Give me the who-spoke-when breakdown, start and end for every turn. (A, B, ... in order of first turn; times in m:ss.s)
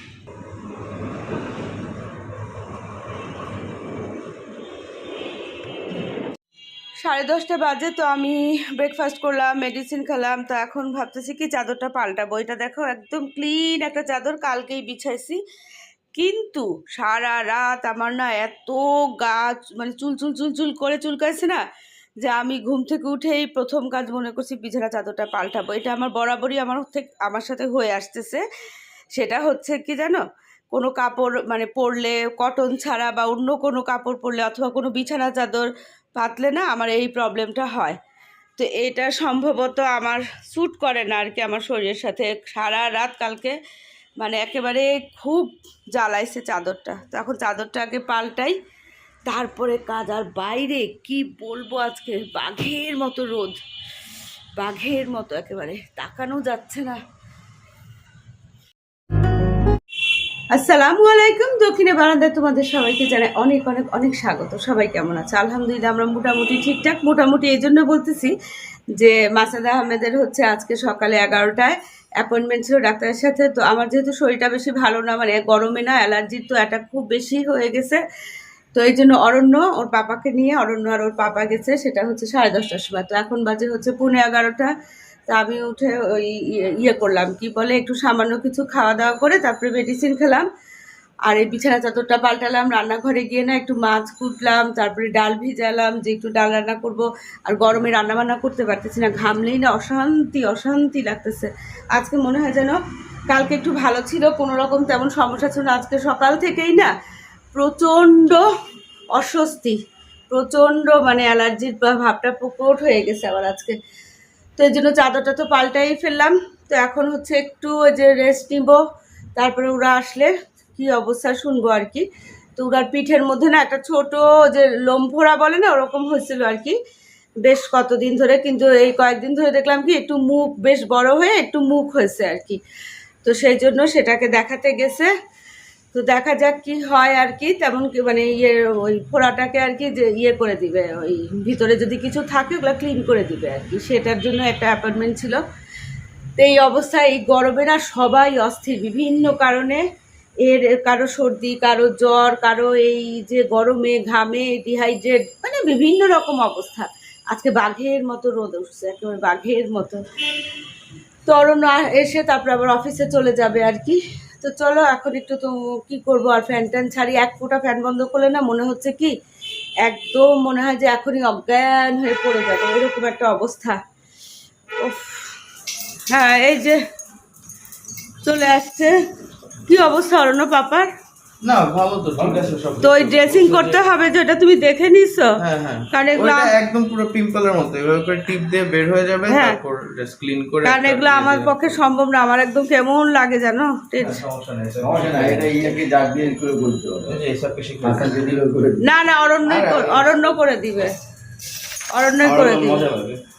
0:07.0-0:15.4 A
0:16.1-0:21.6 A
0:22.2-0:28.4 A
0:29.2-0:38.0 A
0:38.6-0:43.6 A
0:44.2-0:48.6 A
0:49.2-0:53.6 A
0:54.6-0:57.0 A
1:00.5-1:08.3 A
1:09.0-1:18.0 A
1:18.7-1:24.7 A
1:25.3-1:30.5 A
1:31.2-1:42.8 A
1:43.3-1:46.9 A
1:47.5-1:48.5 A
1:49.1-1:49.8 A
1:50.3-1:53.8 A
1:54.6-1:58.8 A
1:59.4-2:06.8 A
2:07.4-2:12.6 A
2:13.2-2:15.1 A
2:15.9-2:25.4 A
2:26.4-2:29.8 A
2:30.4-2:40.0 A
2:41.3-2:49.2 A
2:49.8-2:53.8 A
2:54.8-2:55.4 A
2:56.1-2:56.8 A
2:58.2-2:59.0 A
2:59.7-3:00.9 A
3:01.4-3:03.8 B
3:02.2-3:02.5 C
3:02.8-3:05.4 A
3:05.4-3:11.8 B
3:05.9-3:06.6 A
3:09.3-3:09.6 A
3:10.6-3:14.2 A
3:14.0-3:15.6 B
3:14.8-3:17.2 C
3:17.1-3:18.2 B
3:17.8-3:18.8 C
3:18.8-3:21.0 A
3:19.5-3:20.2 B
3:21.9-3:22.9 A
3:22.2-3:23.2 B